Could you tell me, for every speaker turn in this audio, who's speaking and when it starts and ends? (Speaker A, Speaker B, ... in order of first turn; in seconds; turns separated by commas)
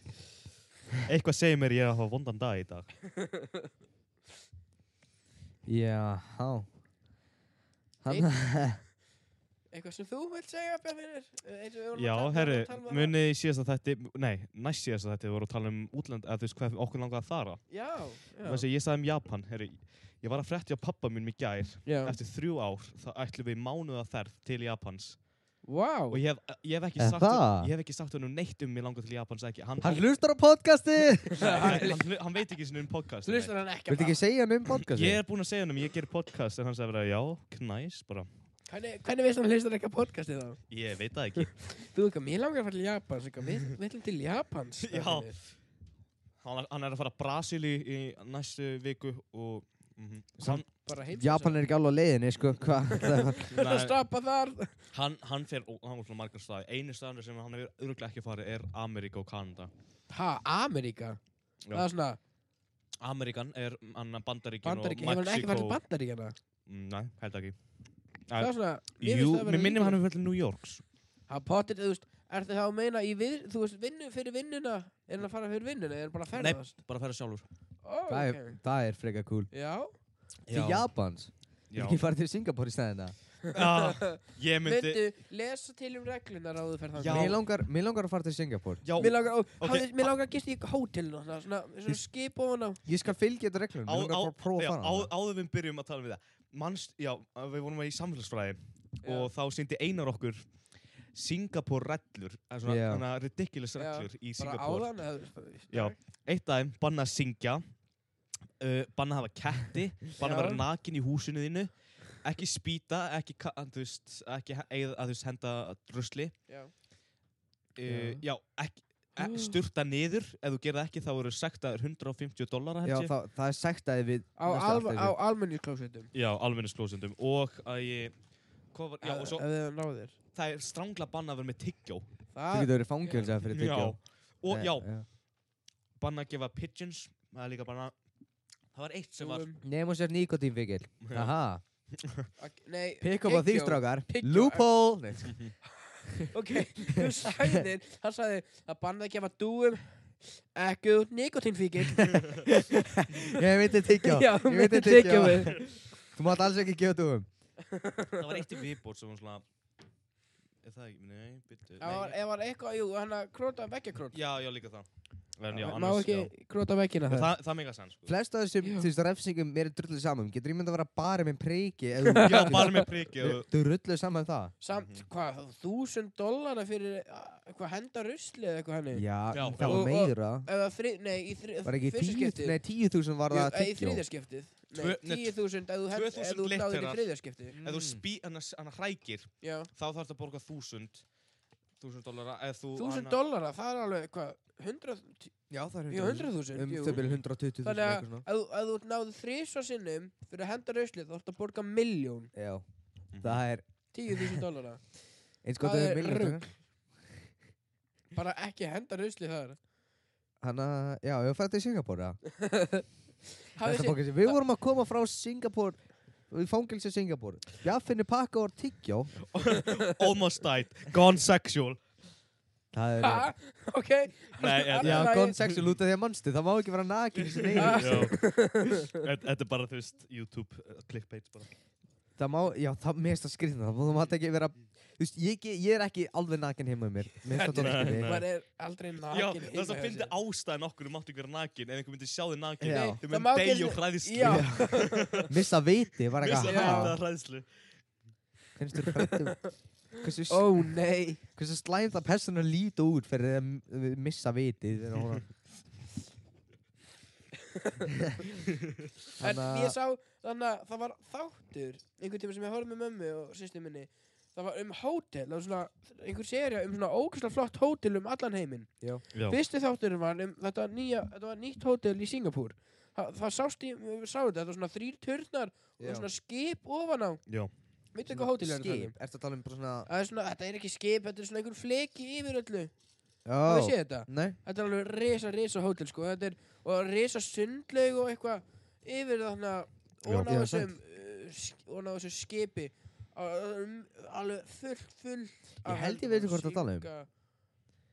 Speaker A: 1.0-2.9, Speaker B: 3.0-3.7, Speaker C: 5.7-6.7, Speaker C: 8.0-8.8, Speaker B: 8.1-8.3, Speaker B: 9.7-13.1, Speaker A: 11.9-17.7, Speaker B: 17.7-18.6, Speaker A: 18.4-25.2, Speaker B: 21.9-22.1, Speaker B: 25.6-26.2, Speaker A: 26.1-30.0, Speaker C: 27.0-27.7, Speaker C: 29.8-31.9, Speaker B: 31.3-32.1, Speaker A: 31.4-33.5, Speaker B: 33.2-34.2, Speaker C: 33.9-35.2, Speaker A: 34.8-38.3, Speaker B: 38.7-40.6, Speaker A: 40.7-41.5, Speaker B: 41.6-45.4, Speaker A: 44.8-45.4, Speaker A: 46.4-50.7, Speaker B: 50.8-51.6, Speaker C: 51.2-53.5, Speaker B: 53.0-54.8, Speaker A: 53.5-54.0, Speaker A: 54.9-59.7, Speaker B: 60.1-61.2, Speaker B: 61.7-62.2, Speaker A: 63.0-65.8, Speaker B: 64.6-66.3, Speaker A: 66.7-67.5, Speaker A: 68.3-70.8, Speaker B: 68.4-70.0, Speaker B: 71.3-76.7, Speaker A: 76.3-77.5, Speaker B: 77.8-78.6, Speaker C: 78.1-79.5, Speaker B: 79.5-79.9, Speaker A: 80.5-80.9, Speaker C: 80.5-83.1, Speaker A: 81.7-82.0, Speaker B: 83.5-87.3, Speaker A: 83.5-85.0, Speaker A: 87.0-87.4, Speaker C: 87.1-88.8, Speaker A: 88.8-90.1, Speaker B: 89.0-92.8, Speaker C: 92.8-95.1, Speaker A: 93.8-100.4, Speaker B: 99.0-99.3, Speaker A: 101.1-104.9, Speaker C: 102.6-103.0, Speaker B: 103.8-106.0, Speaker A: 105.7-107.6, Speaker A: 108.6-116.3, Speaker B: 110.2-110.6, Speaker A: 117.8-123.1, Speaker C: 117.8-118.2, Speaker B: 119.2-119.5, Speaker C: 122.8-125.1, Speaker B: 124.4-126.1, Speaker A: 126.1-128.1, Speaker A: 128.7-129.4, Speaker B: 129.0-130.1, Speaker A: 130.3-132.0, Speaker B: 132.3-133.3, Speaker C: 132.5-134.0, Speaker A: 133.3-134.9, Speaker C: 134.5-135.0, Speaker A: 136.0-137.9, Speaker A: 138.7-139.5, Speaker B: 139.2-139.6, Speaker C: 139.6-141.6, Speaker A: 141.0-141.3, Speaker A: 142.0-142.3, Speaker B: 142.4-144.7, Speaker C: 143.0-145.4, Speaker B: 145.8-155.8, Speaker C: 146.9-147.6, Speaker C: 151.9-157.3, Speaker B: 157.6-158.5, Speaker A: 158.2-159.4, Speaker A: 160.6-162.2, Speaker B: 161.8-164.2, Speaker A: 164.1-164.8, Speaker A: 165.4-166.3, Speaker B: 165.5-167.3, Speaker A: 167.1-168.1, Speaker C: 168.1-174.5, Speaker B: 168.6-168.9, Speaker B: 172.1-172.9, Speaker A: 172.2-173.5, Speaker B: 174.6-179.0, Speaker A: 174.7-175.0, Speaker C: 178.9-180.5, Speaker A: 179.3-179.8, Speaker B: 179.6-182.6, Speaker C: 181.6-184.0, Speaker B: 183.3-187.6, Speaker A: 184.8-191.1, Speaker C: 187.6-188.0, Speaker B: 189.4-189.7, Speaker A: 191.8-193.2, Speaker B: 192.8-195.3, Speaker C: 195.5-198.2, Speaker B: 195.9-197.0, Speaker B: 197.6-202.3, Speaker C: 202.3-202.6, Speaker A: 203.1-203.4, Speaker C: 203.2-203.6, Speaker B: 203.9-204.8, Speaker C: 205.4-206.5, Speaker B: 205.6-206.5, Speaker B: 208.1-209.6, Speaker C: 210.4-212.2, Speaker B: 212.3-212.8, Speaker B: 213.5-214.4, Speaker C: 213.6-219.2, Speaker A: 219.3-221.8, Speaker B: 219.4-220.0, Speaker C: 222.7-223.3, Speaker B: 223.0-225.4, Speaker A: 224.4-225.7, Speaker C: 224.8-228.1, Speaker A: 227.3-231.5, Speaker B: 227.6-229.0, Speaker C: 232.2-238.2, Speaker B: 237.2-240.1, Speaker A: 237.5-238.3, Speaker A: 239.1-245.3, Speaker C: 242.6-243.0, Speaker B: 242.7-245.3, Speaker C: 244.2-247.0, Speaker A: 246.2-247.5, Speaker B: 246.4-246.9, Speaker C: 248.6-250.8, Speaker B: 248.9-249.5, Speaker B: 250.2-251.2, Speaker C: 251.3-255.2, Speaker B: 257.5-258.0, Speaker B: 259.2-277.2, Speaker C: 259.2-259.8, Speaker A: 269.1-269.4, Speaker C: 275.8-276.1, Speaker B: 277.9-278.9, Speaker C: 278.1-279.9, Speaker B: 279.9-282.7, Speaker C: 283.2-284.4, Speaker B: 283.4-297.1, Speaker A: 290.1-290.3, Speaker C: 290.2-290.7, Speaker C: 295.6-296.9